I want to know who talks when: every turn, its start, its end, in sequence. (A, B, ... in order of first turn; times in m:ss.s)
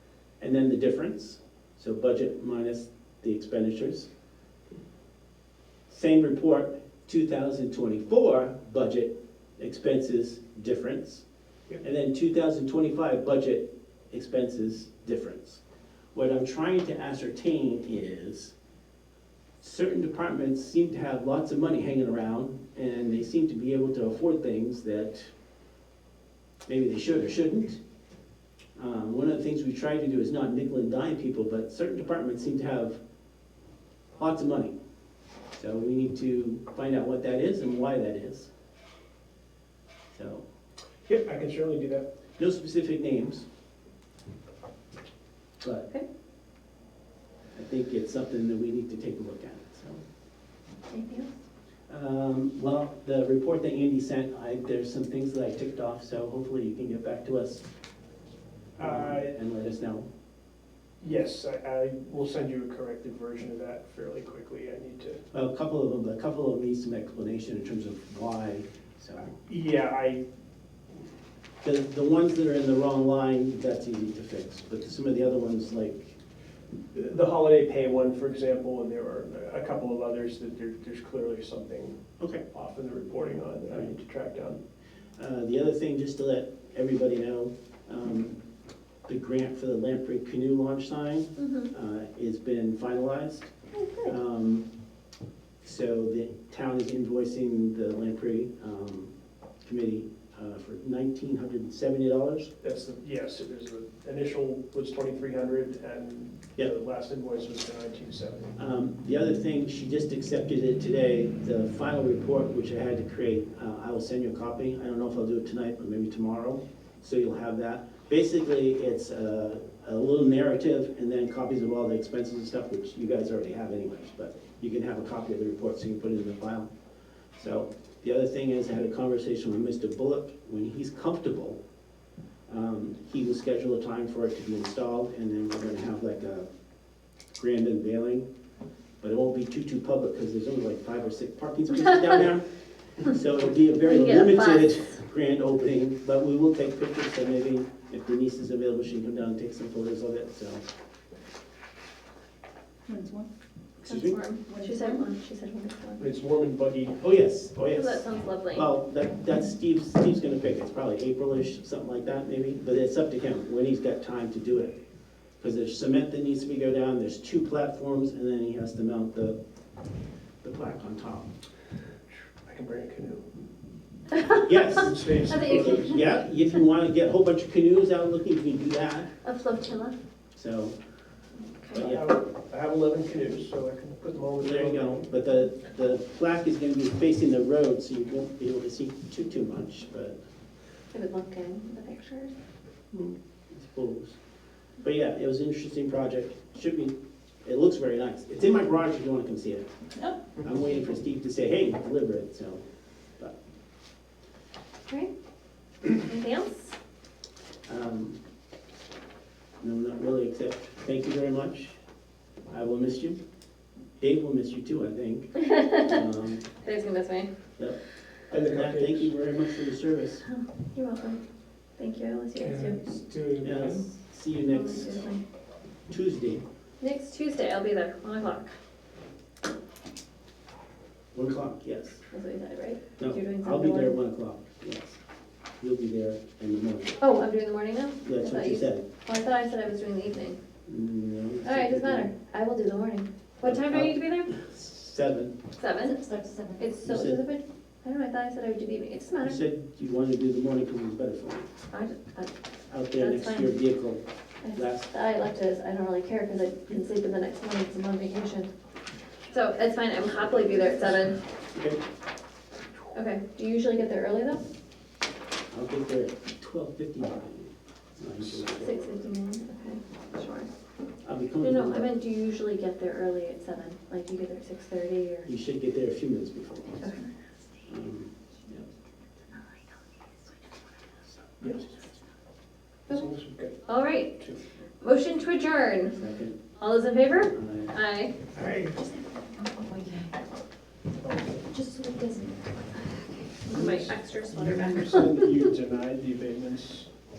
0:00.4-0:04.1 A
0:05.9-0:11.2 A
0:11.8-0:15.6 A
0:16.1-0:18.5 A
0:19.6-0:25.3 A
0:26.7-0:27.8 A
0:28.8-0:33.0 A
0:34.2-0:34.7 A
0:35.5-0:38.5 A
0:40.1-0:40.4 A
0:41.1-0:42.1 B
0:42.4-0:43.4 A
0:45.6-0:45.9 A
0:47.6-0:50.0 A
0:50.9-0:51.3 C
0:51.9-0:57.6 A
0:58.8-0:59.4 B
0:58.8-1:00.1 A
1:01.0-1:05.2 B
1:05.3-1:09.4 A
1:09.4-1:10.2 B
1:11.6-1:16.2 A
1:16.9-1:22.0 B
1:22.5-1:24.6 B
1:23.7-1:24.0 A
1:25.2-1:28.4 A
1:29.1-1:33.5 A
1:31.4-1:31.7 C
1:33.8-1:34.1 C
1:34.0-1:34.7 A
1:35.6-1:42.5 A
1:42.6-1:48.6 B
1:48.6-2:06.7 A
2:07.4-2:11.6 A
2:12.5-2:16.5 A
2:17.3-2:18.3 A
2:19.0-2:30.7 A
2:23.8-2:24.9 C
2:32.9-2:33.3 D
2:33.8-2:34.2 A
2:33.9-2:36.0 C
2:34.5-2:35.0 D
2:36.0-2:37.0 B
2:37.0-2:44.8 A
2:37.8-2:38.7 C
2:45.4-2:49.4 A
2:50.4-2:51.3 A
2:52.4-2:53.3 B
2:54.2-2:59.1 A
2:54.8-2:55.9 B
2:55.3-2:56.1 C
2:59.2-3:00.0 C
3:00.4-3:00.8 A
3:01.7-3:02.1 A
3:01.7-3:05.1 B
3:04.4-3:10.2 A
3:10.9-3:12.4 C
3:12.9-3:14.2 A
3:14.8-3:19.7 A
3:20.4-3:22.6 A
3:25.9-3:26.8 C
3:27.7-3:28.2 A
3:29.6-3:31.8 A
3:32.5-3:33.2 A
3:34.0-3:36.4 A
3:35.4-3:35.9 C
3:36.6-3:37.3 C
3:37.6-3:40.3 A
3:38.3-3:39.1 B
3:40.3-3:41.2 C
3:41.8-3:42.8 C
3:42.4-3:43.9 B
3:43.4-3:45.0 A
3:44.5-3:45.2 C
3:45.9-3:46.4 A
3:46.8-3:48.6 C
3:51.1-3:52.0 A
3:52.1-3:54.0 C
3:53.0-3:55.0 A
3:55.6-3:57.0 A
3:57.0-4:00.4 C
3:58.0-3:58.8 A
4:00.7-4:02.1 A
4:01.4-4:04.4 C
4:03.4-4:05.4 A
4:05.6-4:06.0 C
4:05.8-4:06.6 D
4:06.6-4:09.4 C
4:06.8-4:07.2 A
4:09.2-4:11.5 A
4:11.7-4:12.4 C
4:12.7-4:14.9 A
4:12.9-4:13.6 C
4:14.4-4:18.5 C
4:19.3-4:21.2 C
4:21.5-4:21.8 A
4:22.9-4:24.5 C
4:25.5-4:29.0 A
4:28.6-4:30.5 C
4:31.0-4:32.0 A
4:31.4-4:35.3 C
4:35.2-4:36.9 A
4:36.8-4:37.1 C
4:37.6-4:38.7 A
4:41.4-4:41.8 A
4:42.9-4:43.6 B
4:43.7-4:44.2 C
4:44.2-4:44.5 B
4:44.8-4:46.0 C
4:45.9-4:46.4 A
4:46.6-4:48.2 C
4:47.3-4:47.8 A
4:48.4-4:48.7 B
4:48.8-4:50.2 D
4:51.3-4:52.9 D
4:53.4-4:55.1 C
4:53.5-4:56.9 B